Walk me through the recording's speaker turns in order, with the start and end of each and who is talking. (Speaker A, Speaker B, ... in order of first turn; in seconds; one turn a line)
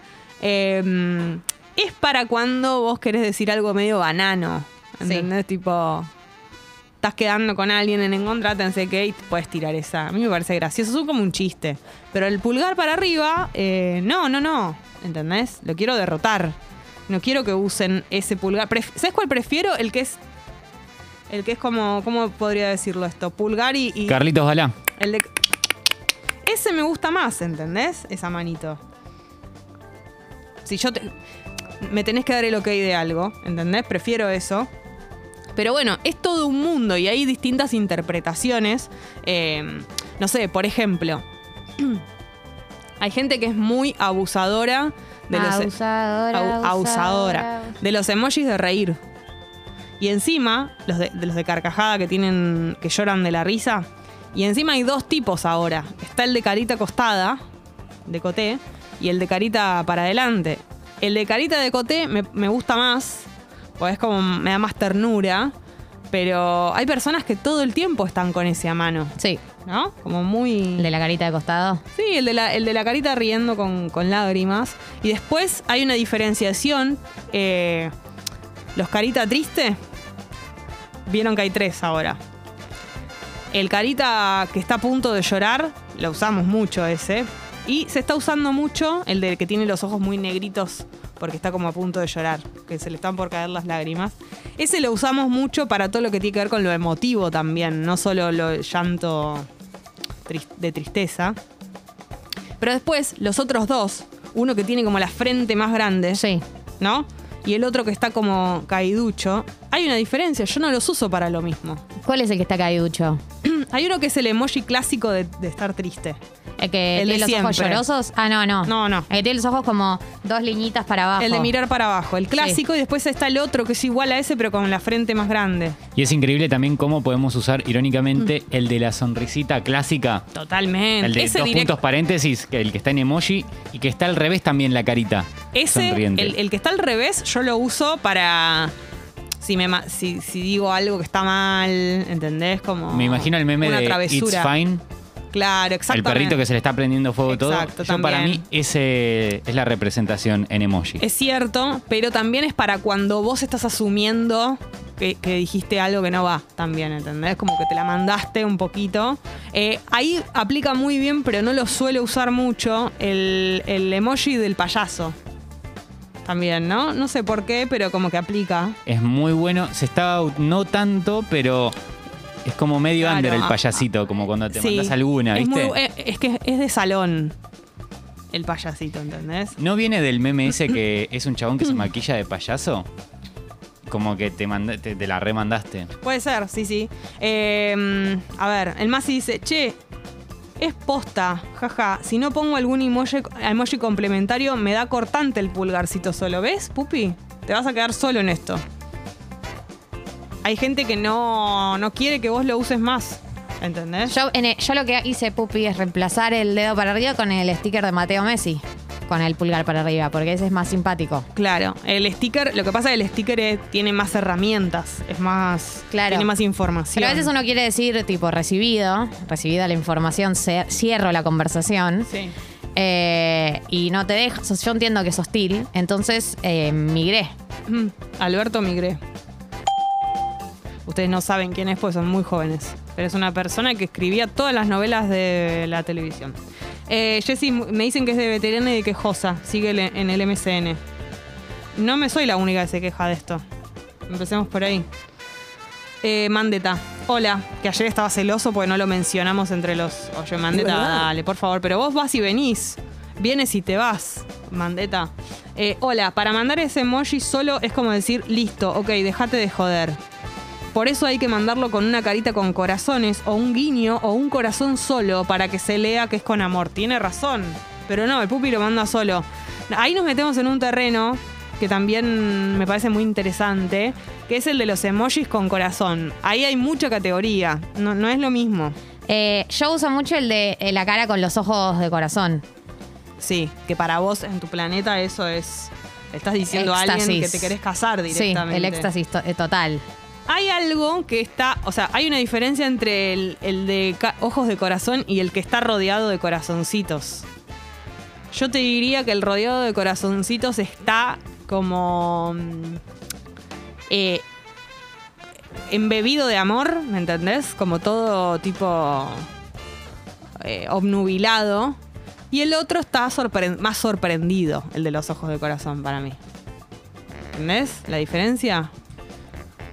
Speaker A: 0.4-6.1
Speaker A: 7.0-16.6
Speaker A: 17.1-20.2
Speaker A: 21.3-24.2
Speaker B: 24.1-24.8
Speaker A: 25.0-25.3
Speaker A: 26.4-28.8
Speaker A: 30.6-31.1
Speaker A: 31.8-34.7
Speaker A: 35.6-41.2
Speaker A: 43.0-45.7
Speaker C: 45.3-47.8
Speaker A: 46.3-49.0
Speaker A: 50.0-57.4
Speaker A: 58.1-65.5
Speaker A: 66.1-70.9
Speaker C: 69.2-69.4
Speaker C: 70.8-71.8
Speaker A: 71.9-77.9
Speaker A: 78.8-79.8
Speaker A: 81.1-82.2
Speaker A: 83.5-99.5
Speaker A: 100.3-101.4
Speaker A: 102.6-106.2
Speaker C: 106.1-106.4
Speaker A: 106.8-111.8
Speaker C: 112.0-113.2
Speaker A: 113.4-116.2
Speaker C: 116.6-121.5
Speaker A: 116.9-117.8
Speaker A: 118.7-119.1
Speaker A: 121.2-125.8
Speaker C: 122.3-122.6
Speaker B: 126.0-130.3
Speaker A: 130.3-131.7
Speaker B: 131.0-136.3
Speaker A: 135.5-138.7
Speaker A: 139.4-144.5
Speaker B: 142.9-144.8
Speaker A: 145.3-146.4
Speaker B: 145.9-151.0
Speaker A: 147.3-148.4
Speaker A: 151.0-165.2
Speaker A: 166.2-168.8
Speaker B: 168.9-171.8
Speaker B: 172.4-175.8
Speaker A: 173.0-173.7
Speaker A: 174.5-177.4
Speaker A: 178.3-179.6
Speaker B: 179.6-182.9
Speaker B: 183.9-185.9
Speaker A: 186.0-189.8
Speaker A: 190.6-198.6
Speaker A: 200.4-204.2
Speaker C: 204.1-211.3
Speaker A: 211.3-217.3
Speaker C: 215.9-216.3
Speaker C: 216.9-222.1
Speaker A: 222.1-222.3
Speaker C: 222.8-227.3
Speaker A: 227.7-229.0
Speaker A: 230.9-236.4
Speaker A: 236.9-240.8
Speaker A: 241.8-243.4
Speaker A: 244.1-244.9
Speaker A: 246.0-260.0
Speaker A: 260.7-278.8
Speaker C: 279.1-282.4
Speaker A: 283.2-288.9
Speaker C: 286.5-287.6
Speaker C: 288.1-289.9
Speaker A: 290.3-297.3
Speaker A: 298.3-302.8
Speaker A: 303.9-304.2
Speaker A: 305.7-309.3
Speaker A: 310.4-311.8
Speaker A: 312.3-316.2
Speaker A: 317.3-318.7